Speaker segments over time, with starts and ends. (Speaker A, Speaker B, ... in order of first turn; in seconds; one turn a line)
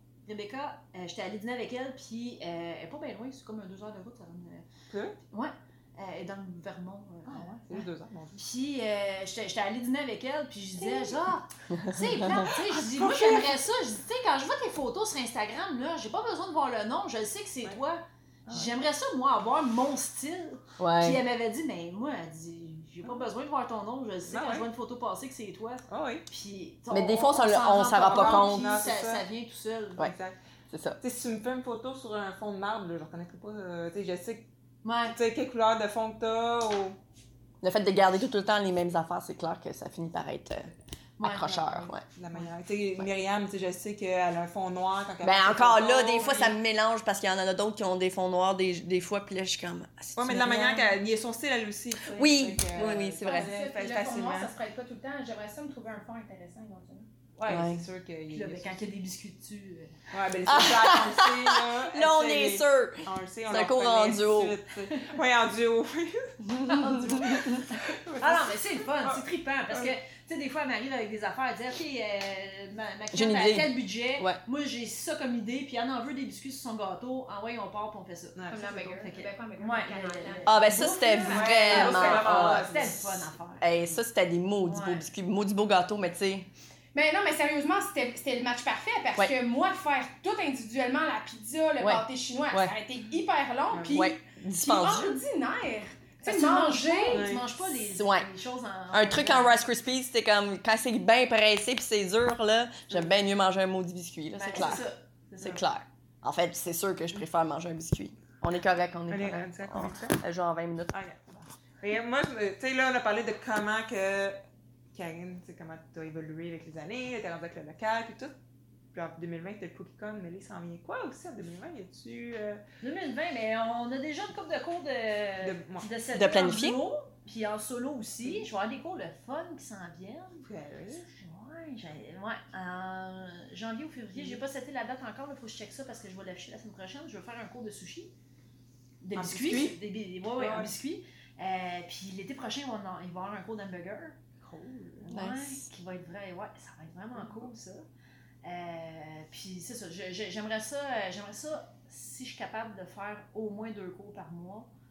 Speaker A: 0.2-4.6
Speaker B: 4.9-5.2
Speaker A: 5.3-7.8
Speaker B: 7.2-8.4
Speaker A: 8.4-30.1
Speaker B: 10.8-11.1
Speaker C: 11.7-12.5
Speaker B: 12.5-13.6
Speaker B: 18.4-18.7
Speaker C: 20.8-21.2
Speaker B: 24.3-24.7
Speaker B: 25.9-26.2
Speaker C: 26.9-28.7
Speaker B: 28.0-29.2
Speaker B: 30.0-30.4
Speaker C: 30.7-31.0
Speaker B: 31.0-34.5
Speaker A: 34.8-35.1
Speaker B: 35.1-37.0
Speaker C: 37.6-42.0
Speaker A: 41.2-42.5
Speaker B: 42.0-46.5
Speaker C: 45.2-50.9
Speaker B: 50.1-54.5
Speaker C: 52.0-53.5
Speaker D: 53.2-57.1
Speaker B: 57.4-58.8
Speaker C: 57.5-57.8
Speaker A: 58.3-59.9
Speaker B: 60.1-66.4
Speaker C: 60.5-64.5
Speaker C: 66.4-67.7
Speaker A: 66.6-84.0
Speaker B: 67.7-69.9
Speaker C: 73.1-74.4
Speaker B: 78.3-78.7
Speaker D: 78.5-81.5
Speaker C: 80.5-82.9
Speaker B: 81.3-83.3
Speaker C: 83.6-86.5
Speaker A: 84.6-85.0
Speaker D: 86.9-97.3
Speaker C: 91.8-92.7
Speaker B: 93.7-94.0
Speaker C: 93.9-95.2
Speaker A: 96.2-99.6
Speaker B: 97.1-97.4
Speaker C: 97.9-98.3
Speaker C: 98.9-104.8
Speaker A: 104.3-105.6
Speaker C: 105.4-110.9
Speaker B: 109.1-110.2
Speaker B: 110.9-114.4
Speaker B: 114.9-118.3
Speaker B: 118.9-122.6
Speaker A: 122.8-130.4
Speaker B: 125.4-125.9
Speaker C: 126.1-126.8
Speaker B: 130.4-131.1
Speaker A: 131.2-138.1
Speaker B: 134.1-134.4
Speaker A: 139.0-144.2
Speaker B: 139.2-139.8
Speaker B: 140.3-140.7
Speaker B: 144.4-145.1
Speaker A: 145.0-147.8
Speaker C: 145.1-145.7
Speaker B: 147.2-147.5
Speaker A: 148.4-154.7